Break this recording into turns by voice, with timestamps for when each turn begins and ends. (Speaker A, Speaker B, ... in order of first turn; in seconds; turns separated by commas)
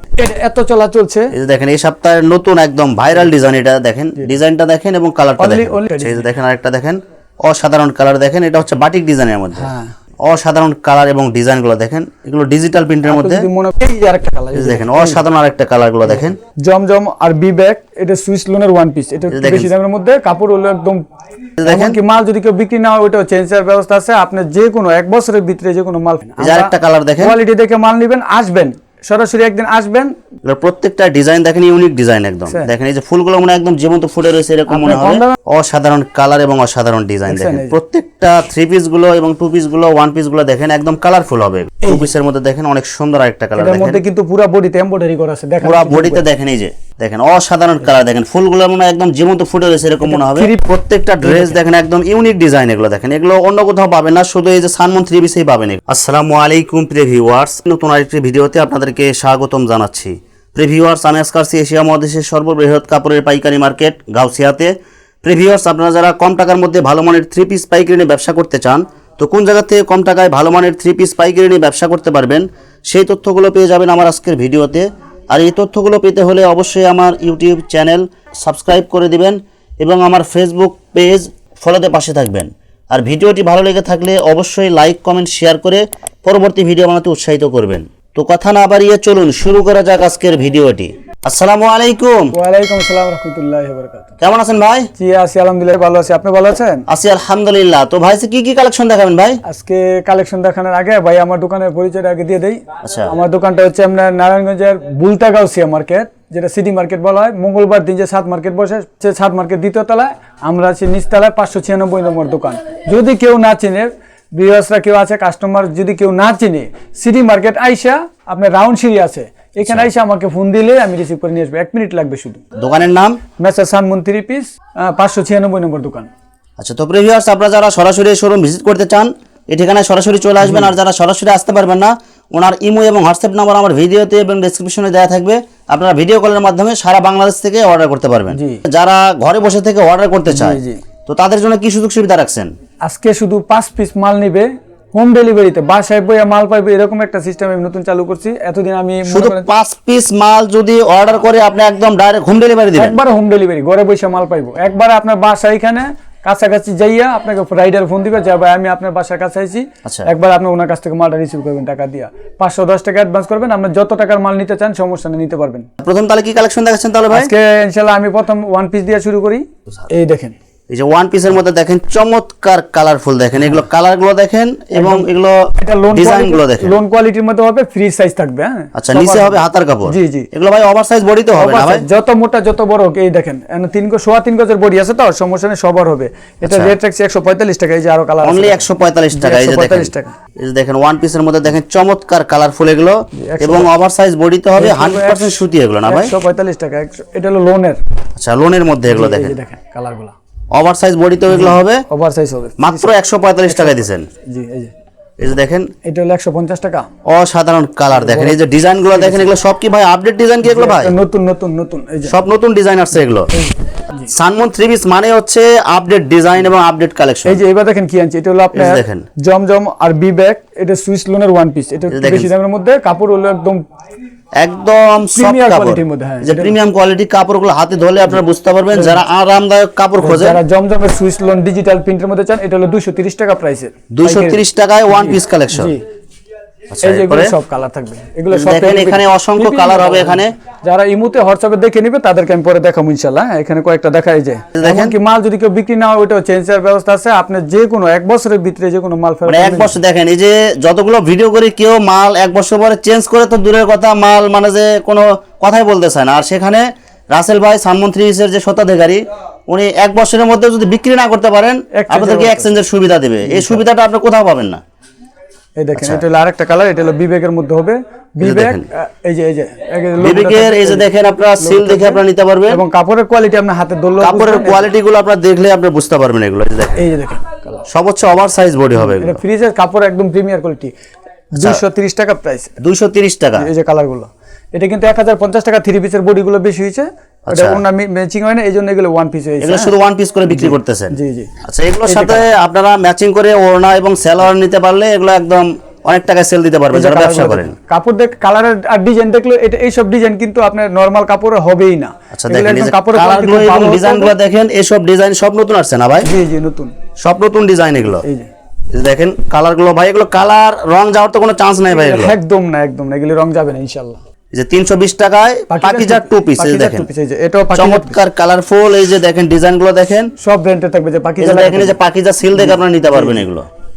Speaker A: 0.2-1.3, Speaker B: 1.3-9.7, Speaker A: 5.4-6.3, Speaker A: 9.6-9.9, Speaker B: 10.2-13.4, Speaker A: 13.0-15.2, Speaker B: 14.5-16.4, Speaker A: 16.1-21.0, Speaker B: 19.3-19.7, Speaker B: 21.6-22.0, Speaker A: 21.6-30.1, Speaker B: 26.4-27.4, Speaker B: 30.4-44.0, Speaker A: 34.7-35.4, Speaker A: 37.3-37.8, Speaker A: 41.8-42.1, Speaker A: 43.6-46.2, Speaker B: 45.6-92.3, Speaker A: 50.0-51.6, Speaker A: 92.3-94.1, Speaker B: 94.2-94.9, Speaker A: 95.0-96.8, Speaker B: 96.9-99.4, Speaker A: 99.4-122.4, Speaker B: 102.8-103.1, Speaker B: 122.5-123.2, Speaker A: 123.4-126.1, Speaker B: 126.6-142.5, Speaker A: 130.4-130.8, Speaker A: 138.3-138.6, Speaker A: 140.3-140.8, Speaker A: 142.8-149.5, Speaker B: 149.0-153.0, Speaker A: 152.8-165.7, Speaker B: 165.8-167.3, Speaker A: 167.1-170.3, Speaker B: 170.7-176.8, Speaker A: 174.7-180.3, Speaker B: 178.7-181.8, Speaker A: 181.3-190.1, Speaker B: 186.4-186.7, Speaker B: 188.2-196.1, Speaker A: 193.2-193.7, Speaker A: 194.5-197.8, Speaker B: 198.2-199.3, Speaker A: 198.9-200.1, Speaker B: 200.5-201.8, Speaker A: 201.3-202.9, Speaker B: 202.6-204.1, Speaker A: 203.4-204.7, Speaker B: 205.2-205.7, Speaker A: 205.8-206.9, Speaker B: 207.0-210.9, Speaker A: 207.9-209.3, Speaker A: 210.4-212.2, Speaker B: 212.1-213.3, Speaker A: 213.2-214.1, Speaker B: 214.1-217.4, Speaker A: 217.2-223.6, Speaker B: 218.5-219.1, Speaker B: 221.9-222.3, Speaker B: 224.4-230.4, Speaker A: 225.1-226.6, Speaker A: 228.7-229.0, Speaker A: 230.0-235.8, Speaker B: 233.9-235.7, Speaker B: 236.7-237.3, Speaker A: 236.8-249.7, Speaker B: 238.3-240.3, Speaker B: 244.5-244.9, Speaker B: 249.3-264.6, Speaker A: 261.7-262.6, Speaker A: 263.2-263.6, Speaker A: 265.6-274.7, Speaker B: 265.7-266.0, Speaker B: 268.2-268.6, Speaker B: 270.0-272.6, Speaker B: 274.0-276.9, Speaker A: 276.8-277.6, Speaker B: 277.7-279.2, Speaker A: 278.8-280.7, Speaker A: 281.3-282.6, Speaker B: 281.4-281.6, Speaker B: 282.6-283.5, Speaker A: 283.4-289.7, Speaker B: 287.3-287.6, Speaker B: 289.4-297.5, Speaker A: 290.3-291.3, Speaker A: 291.9-292.3, Speaker A: 296.7-304.1, Speaker B: 302.1-306.1, Speaker A: 306.0-306.7, Speaker B: 307.0-308.0, Speaker A: 307.9-308.3, Speaker B: 308.7-312.1, Speaker A: 311.7-314.0, Speaker B: 314.3-316.9, Speaker A: 315.5-318.0, Speaker B: 317.5-320.1, Speaker A: 320.2-321.8, Speaker B: 321.2-323.5, Speaker A: 322.3-323.3